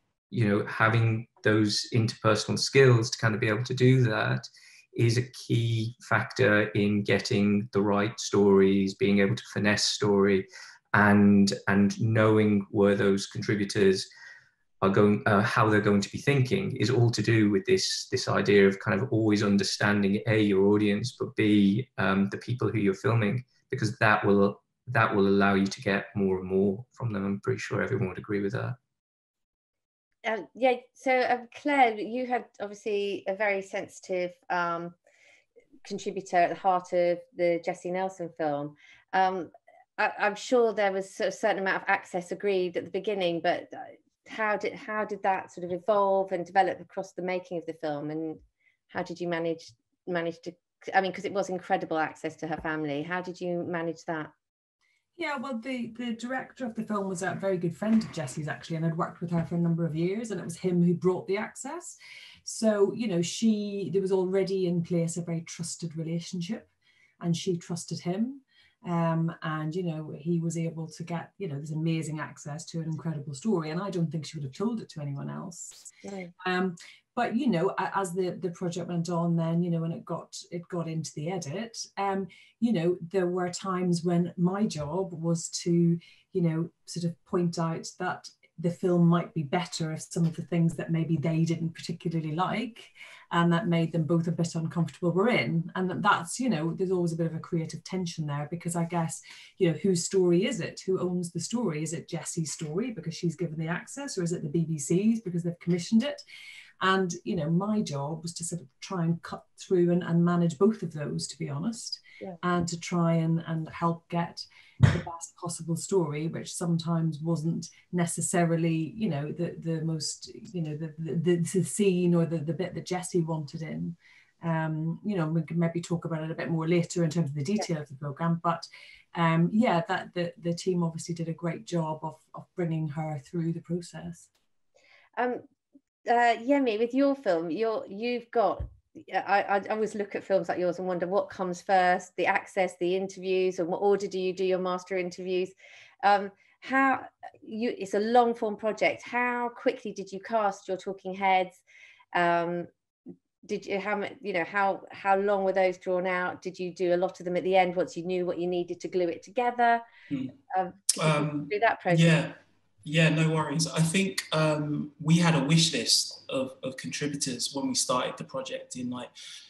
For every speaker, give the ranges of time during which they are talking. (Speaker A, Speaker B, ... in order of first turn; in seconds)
Speaker A: 0.3-14.1, 14.8-28.8
Speaker B: 30.2-35.0, 35.9-54.3, 76.0-76.3, 135.2-135.4, 136.1-151.6, 152.1-152.7, 153.4-159.8, 160.5-162.2
Speaker C: 55.2-66.7, 67.2-75.9, 76.4-106.2, 106.8-134.3
Speaker D: 161.0-162.3, 162.8-169.1